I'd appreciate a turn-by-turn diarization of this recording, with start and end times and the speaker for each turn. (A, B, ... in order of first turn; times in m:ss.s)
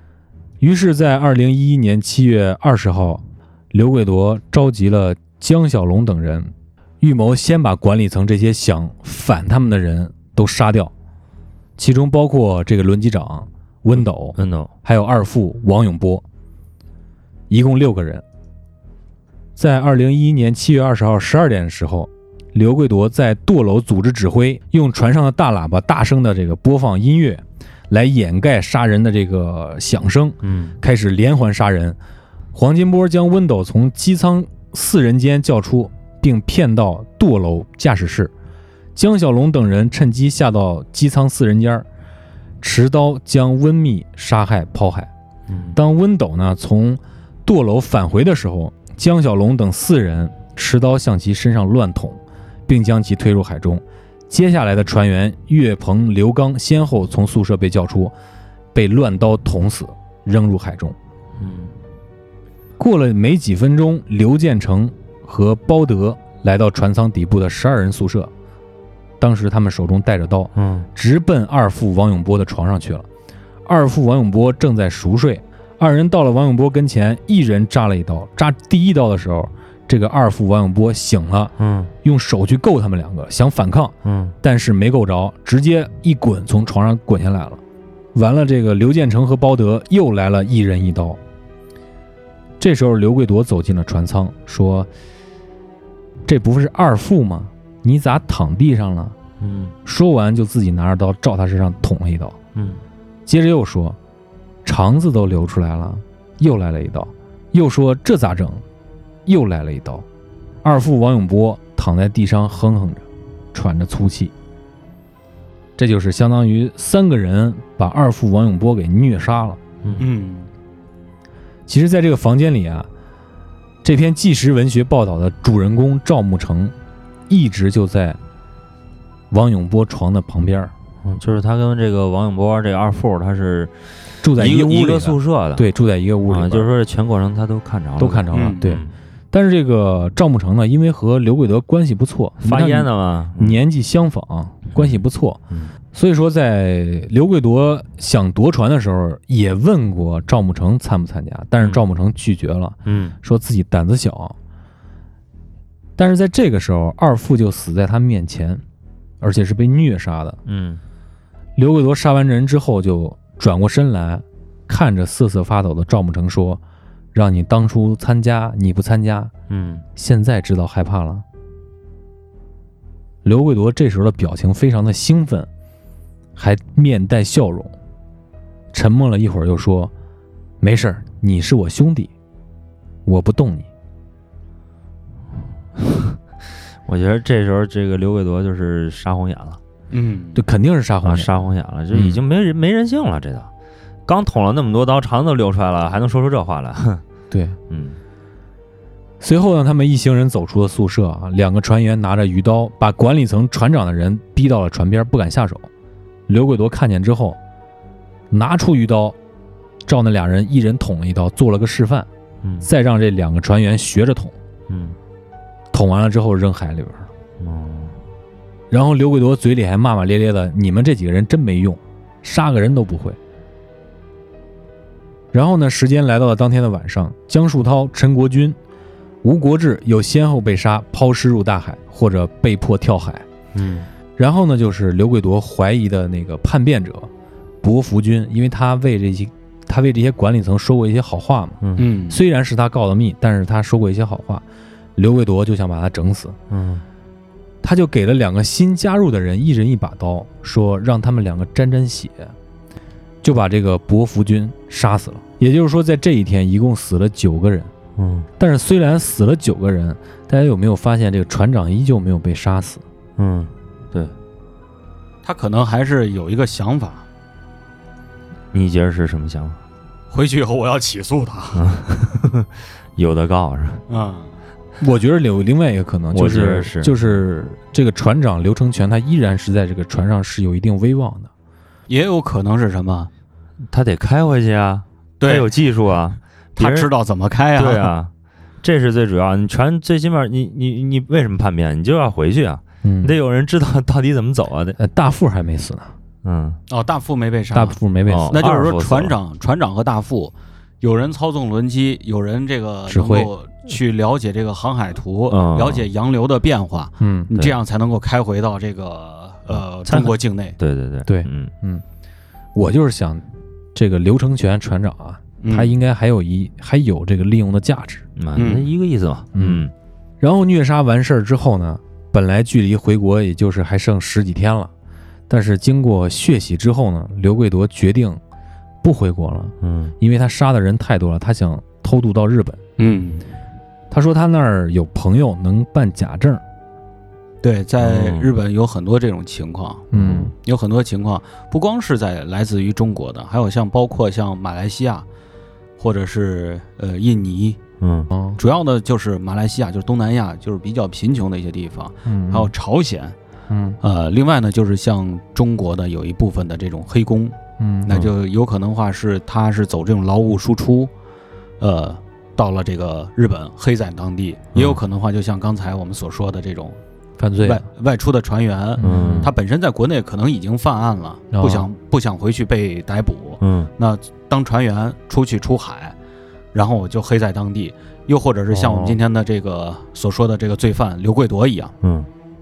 0:00.6-0:10.9 A
0:11.8-0:16.2 A
0:14.4-0:14.7 B
0:17.5-0:18.2 A
0:19.6-0:32.0 A
0:30.4-0:30.7 B
0:32.5-0:38.3 A
0:39.0-0:41.9 A
0:42.6-0:45.1 A
0:45.5-0:45.8 B
0:45.7-0:58.2 A
0:58.7-1:01.0 A
1:01.4-1:01.7 B
1:02.8-1:08.3 A
1:09.2-1:13.1 A
1:10.6-1:10.9 B
1:13.7-1:21.5 A
1:21.6-1:21.9 B
1:22.0-1:27.6 A
1:24.0-1:24.4 B
1:28.1-1:31.2 A
1:32.6-1:34.9 A
1:36.3-1:39.2 A
1:39.4-1:39.7 B
1:39.8-1:42.4 A
1:42.6-1:42.8 B
1:43.3-1:44.0 A
1:44.6-1:48.6 A
1:49.3-1:50.0 A
1:50.6-1:54.3 A
1:55.8-1:59.6 A
2:00.0-2:00.5 C
2:01.7-2:02.9 A
2:03.8-2:06.7 A
2:07.3-2:08.2 A
2:09.3-2:10.7 A
2:11.0-2:13.7 B
2:14.2-2:16.7 A
2:14.4-2:15.7 B
2:16.3-2:18.9 B
2:18.0-2:25.4 A
2:18.3-2:18.8 C
2:22.4-2:23.6 B
2:24.7-2:25.0 B
2:25.9-2:34.4 A
2:32.9-2:33.2 B
2:36.0-2:38.6 A
2:39.2-2:40.4 A
2:40.5-2:40.8 B
2:41.6-2:46.6 A
2:47.1-2:49.3 A
2:49.5-2:49.8 B
2:50.0-2:51.2 A
2:53.2-2:55.5 A
2:56.4-2:57.7 A
2:58.7-2:59.9 A
3:00.6-3:02.1 A
3:03.1-3:03.7 A
3:05.8-3:06.2 B
3:06.9-3:09.6 B
3:09.9-3:10.4 C
3:10.4-3:11.3 A
3:11.0-3:13.5 B
3:11.9-3:12.2 A
3:14.1-3:17.0 B
3:17.3-3:17.6 A
3:17.7-3:18.0 B
3:19.2-3:25.7 A
3:26.3-3:27.4 A
3:28.3-3:29.2 A
3:29.9-3:32.1 A
3:32.6-3:34.4 A
3:34.7-3:35.0 B
3:35.7-3:37.1 A
3:37.4-3:38.0 B
3:38.7-3:43.2 A
3:45.3-3:48.6 A
3:49.2-3:53.3 A
3:53.6-3:53.9 B
3:54.2-3:57.1 A
3:57.6-4:01.6 A
4:01.6-4:01.9 B
4:01.8-4:02.2 C
4:02.1-4:04.4 A
4:05.0-4:06.4 A
4:06.5-4:06.8 B
4:07.6-4:12.3 A
4:13.2-4:17.7 A
4:18.0-4:18.3 B
4:18.4-4:22.8 A
4:23.2-4:24.1 B
4:25.2-4:27.1 C
4:28.5-4:29.6 B
4:30.1-4:31.6 C
4:31.6-4:33.8 B
4:33.9-4:34.3 C
4:34.8-4:41.3 A
4:36.1-4:36.9 B
4:41.9-4:43.1 C
4:43.7-4:46.9 B
4:45.2-4:45.5 C
4:46.6-4:47.9 C
4:47.6-4:48.1 B
4:48.6-4:54.8 B
4:52.8-4:53.2 A
4:54.8-4:55.9 A
4:56.2-4:56.6 B
4:56.7-4:57.8 C
4:57.5-4:58.4 A
4:58.1-4:59.2 B
4:58.3-5:10.6 C
5:02.9-5:03.3 A
5:05.3-5:05.8 B
5:07.0-5:07.3 A
5:09.9-5:11.5 B
5:11.1-5:11.8 A
5:12.6-5:13.2 A
5:13.8-5:18.0 A
5:15.4-5:15.8 C
5:18.2-5:19.7 B
5:18.4-5:18.7 C
5:19.4-5:19.6 A
5:20.2-5:24.7 A
5:25.3-5:28.2 A
5:28.8-5:32.6 A
5:29.6-5:29.9 B
5:32.8-5:33.2 C
5:33.9-5:36.4 A
5:37.4-5:39.9 C
5:37.8-5:38.3 B
5:39.9-5:40.3 A
5:40.0-5:40.2 B
5:40.4-5:45.1 C
5:45.8-5:47.6 C
5:47.8-5:48.1 B
5:48.1-5:48.4 A
5:48.4-5:53.2 C
5:52.0-5:52.5 A
5:53.5-5:53.8 A
5:53.8-6:00.9 C
5:57.6-5:58.0 A
6:01.6-6:06.8 C
6:07.2-6:07.7 A
6:07.4-6:16.0 C
6:08.8-6:09.3 A
6:08.8-6:09.3 B
6:11.3-6:11.7 A
6:13.4-6:13.7 B
6:16.5-6:21.7 C
6:18.5-6:19.0 A
6:21.8-6:22.1 B